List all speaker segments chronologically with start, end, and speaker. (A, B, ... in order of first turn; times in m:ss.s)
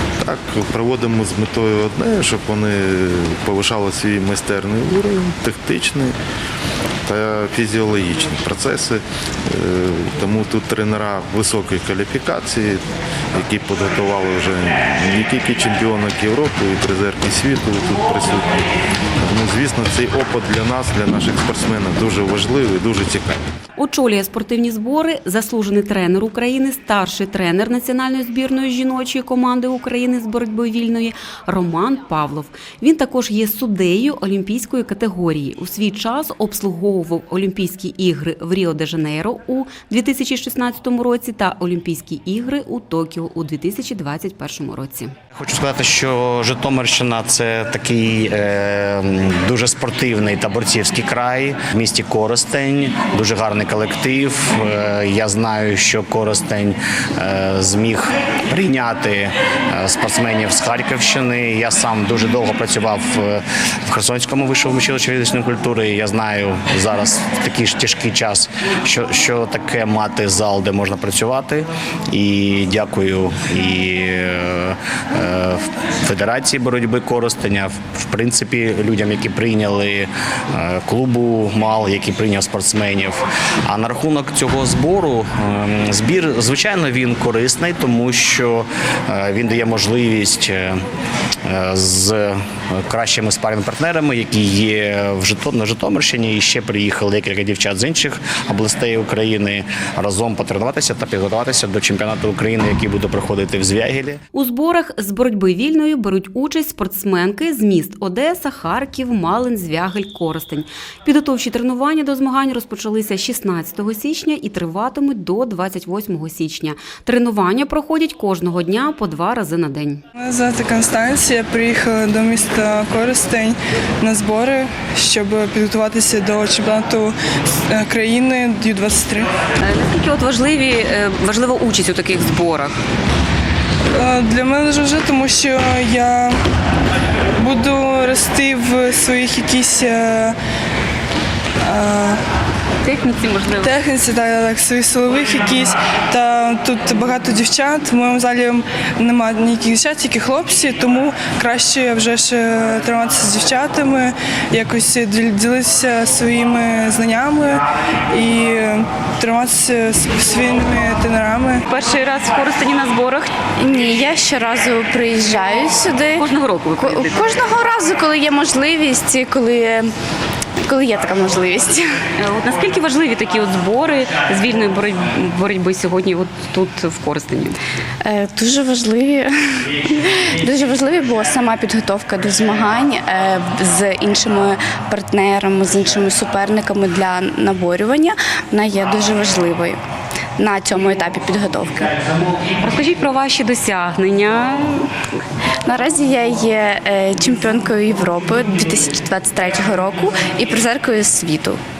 0:00.2-0:06.1 A
0:07.0-0:23.4 A
0:23.8-0:45.1 B
0:45.3-1:30.8 C
1:31.4-1:44.2 C
1:44.3-2:00.0 B
2:00.4-2:03.3 D
2:04.0-2:06.9 D
2:07.7-2:09.2 D
2:09.6-2:12.8 B
2:14.0-2:16.2 D
2:17.5-2:20.2 D
2:21.8-2:22.0 D
2:22.8-2:23.7 B
2:23.8-2:37.5 D
2:38.2-2:41.6 D
2:41.7-2:43.3 B
2:43.6-2:46.2 E
2:46.1-2:47.3 B
2:46.8-2:49.9 E
2:50.6-2:52.0 E
2:52.2-2:57.6 B
2:58.0-3:09.8 E
3:10.4-3:11.9 E
3:12.6-3:14.9 B
3:15.6-3:21.6 E